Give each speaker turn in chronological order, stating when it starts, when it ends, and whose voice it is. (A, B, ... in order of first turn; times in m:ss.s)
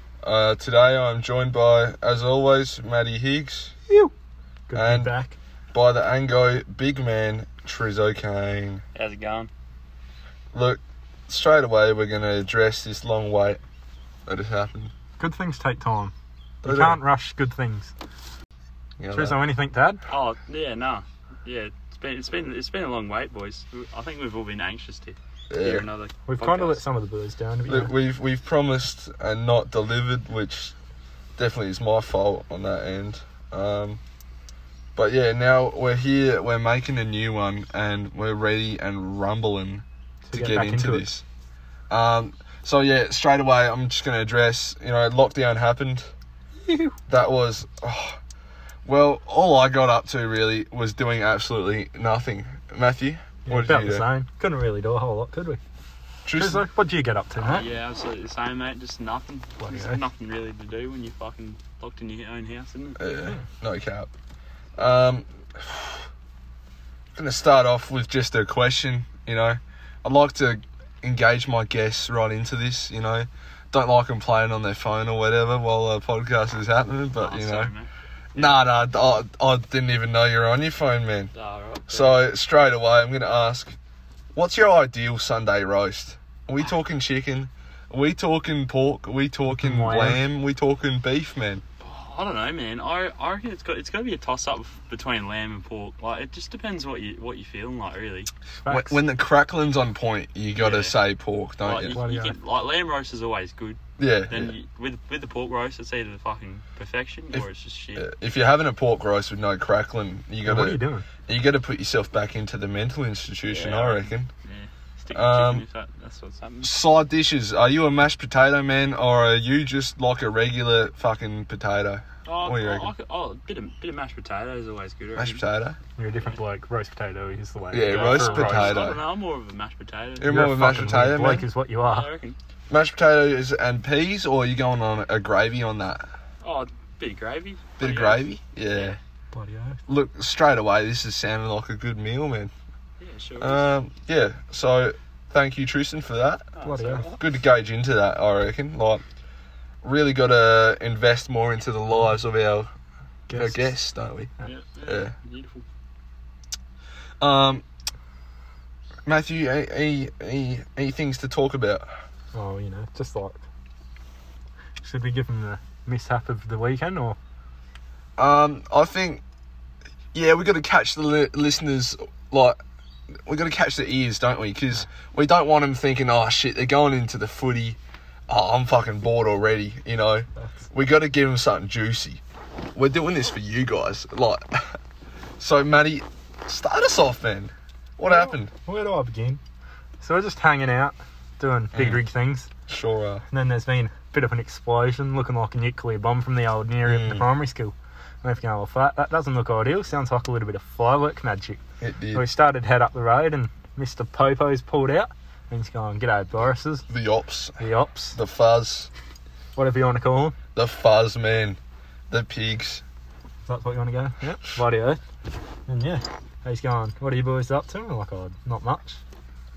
0:00.2-0:03.7 A
0:04.7-0:05.4 B
0:04.7-0:05.1 A
0:05.7-0:08.8 A
0:09.0-0:09.5 C
0:10.5-0:13.6 A
0:14.3-0:14.9 A
0:15.2-0:16.1 B
0:16.6-0:17.0 A
0:16.6-0:17.9 B
0:19.0-0:19.4 A
0:19.1-0:20.0 B
0:20.1-0:26.8 C
0:25.5-0:25.9 A
0:26.3-0:27.9 B
0:27.7-0:30.7 A
0:31.4-0:34.0 A
0:35.0-0:41.2 A
0:40.2-0:41.1 B
0:41.9-0:46.1 A
0:46.6-0:47.0 B
0:47.1-0:48.2 A
0:48.8-0:54.1 A
0:53.5-0:55.6 B
0:56.2-0:56.6 A
0:56.4-0:57.7 B
0:57.4-1:03.0 C
0:59.6-1:00.0 B
1:03.0-1:04.1 A
1:04.8-1:06.1 A
1:07.2-1:17.7 A
1:17.2-1:18.5 C
1:18.4-1:21.3 A
1:21.3-1:22.3 C
1:21.9-1:23.8 A
1:24.4-1:31.6 A
1:29.5-1:30.2 B
1:31.8-1:38.3 C
1:38.6-1:39.0 B
1:38.7-1:42.0 A
1:40.6-1:41.0 C
1:41.6-1:43.8 C
1:41.9-1:42.4 B
1:44.0-1:44.6 A
1:44.3-1:48.1 C
1:47.3-1:54.3 A
1:50.4-1:51.0 B
1:53.5-1:56.8 C
1:55.1-1:55.6 A
1:56.6-2:02.9 A
2:02.2-2:05.4 C
2:05.2-2:05.8 A
2:06.0-2:08.9 B
2:07.7-2:09.0 A
2:07.9-2:10.3 C
2:10.2-2:11.5 A
2:10.3-2:12.1 B
2:11.8-2:12.4 C
2:12.7-2:16.1 A
2:16.4-2:19.0 C
2:17.8-2:19.0 A
2:19.3-2:19.8 B
2:19.9-2:22.5 A
2:23.0-2:23.7 C
2:23.4-2:26.4 A
2:26.5-2:27.3 C
2:26.6-2:27.1 B
2:27.0-2:29.0 A
2:29.8-2:32.7 A
2:33.3-2:33.8 B
2:33.3-2:34.3 A
2:34.4-2:35.6 C
2:34.8-2:35.1 A
2:37.2-2:37.6 A
2:39.0-2:41.9 A
2:42.3-2:43.4 B
2:44.8-2:47.2 B
2:48.2-2:49.2 A
2:50.1-2:52.6 A
2:53.3-2:57.8 A
2:58.3-3:02.2 A
3:00.4-3:00.7 B
3:02.8-3:04.8 A
3:05.4-3:08.5 A
3:08.1-3:09.4 B
3:10.0-3:12.5 B
3:11.7-3:12.0 A
3:12.7-3:13.2 A
3:13.3-3:21.6 B
3:16.8-3:17.3 A
3:21.8-3:22.3 A
3:22.1-3:26.9 B
3:26.9-3:28.9 A
3:27.6-3:28.2 B
3:29.6-3:30.4 B
3:30.6-3:32.8 A
3:33.5-3:35.0 B
3:35.7-3:39.0 B